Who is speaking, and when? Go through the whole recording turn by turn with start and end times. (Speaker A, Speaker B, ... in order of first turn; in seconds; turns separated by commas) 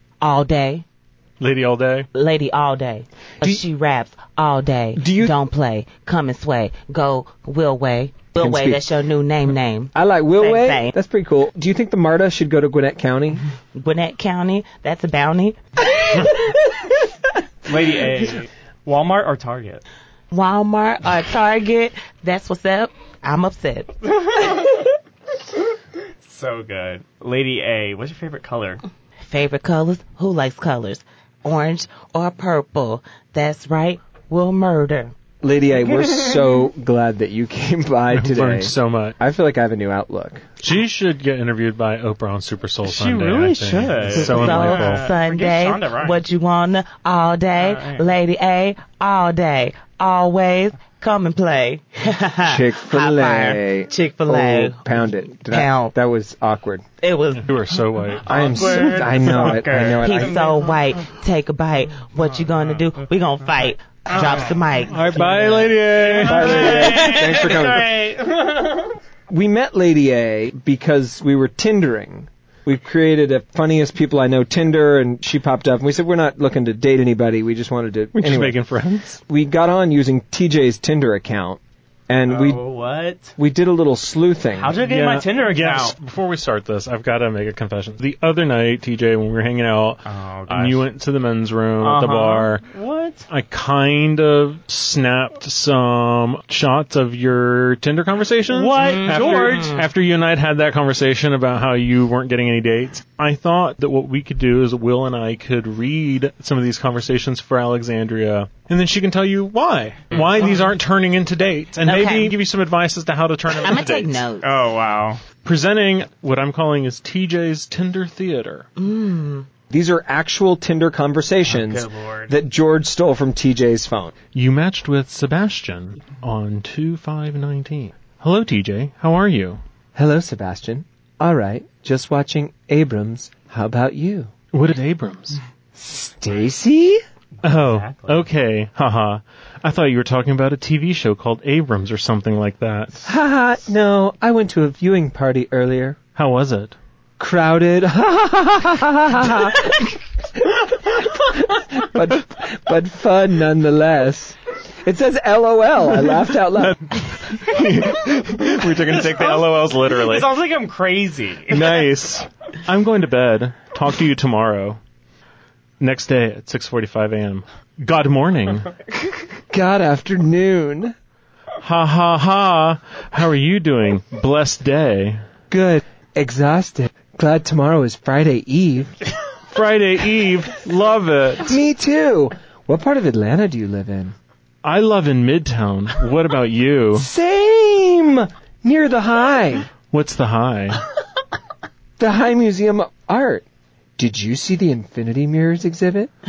Speaker A: 0.2-0.8, Speaker B: 1.4-2.1, Speaker A: 2.1-10.9, Speaker C: 5.0-5.3, Speaker C: 8.4-8.9, Speaker C: 9.9-13.4, Speaker A: 13.8-15.6, Speaker D: 17.6-19.8, Speaker A: 20.3-24.0, Speaker D: 24.1-24.8, Speaker D: 26.2-28.8, Speaker A: 29.2-35.1, Speaker C: 35.4-40.5, Speaker D: 36.0-36.5, Speaker B: 38.1-39.2, Speaker B: 40.6-45.1, Speaker D: 42.9-46.2, Speaker A: 44.1-54.9, Speaker D: 47.6-48.1, Speaker C: 52.4-56.8, Speaker A: 55.5-55.9, Speaker A: 57.0-57.5, Speaker B: 57.4-59.0, Speaker D: 58.2-61.0, Speaker C: 58.3-60.4, Speaker A: 60.0-65.3, Speaker D: 62.2-63.0, Speaker D: 64.1-69.0, Speaker B: 64.9-66.9, Speaker C: 66.2-68.0, Speaker C: 69.3-78.6, Speaker B: 78.1-79.2, Speaker C: 79.3-82.6, Speaker D: 82.3-83.3, Speaker C: 83.4-84.8, Speaker D: 84.5-86.0, Speaker B: 84.8-92.7, Speaker D: 90.0-90.9, Speaker D: 91.8-93.3, Speaker B: 93.3-114.2, Speaker D: 98.5-99.8, Speaker A: 98.8-99.8, Speaker D: 110.1-110.7, Speaker A: 111.8-112.4, Speaker A: 113.6-114.5, Speaker D: 114.4-115.3, Speaker B: 115.3-118.7, Speaker A: 118.8-119.5, Speaker C: 119.7-124.1, Speaker D: 121.5-122.3, Speaker B: 124.3-129.6, Speaker C: 129.9-134.3, Speaker B: 134.5-135.4, Speaker C: 135.8-137.0, Speaker B: 137.4-143.1, Speaker D: 137.5-138.3, Speaker C: 143.1-146.0, Speaker B: 146.2-146.8, Speaker C: 147.2-149.9, Speaker C: 150.4-156.8, Speaker B: 156.6-160.3, Speaker D: 158.8-161.9, Speaker B: 161.5-164.8, Speaker B: 165.8-168.7, Speaker C: 169.5-170.9, Speaker B: 171.6-175.2, Speaker C: 175.5-179.0, Speaker B: 179.5-181.5, Speaker C: 181.4-184.1, Speaker B: 184.6-187.1, Speaker C: 186.9-189.7, Speaker B: 189.9-190.8, Speaker C: 192.0-193.4, Speaker C: 194.0-196.1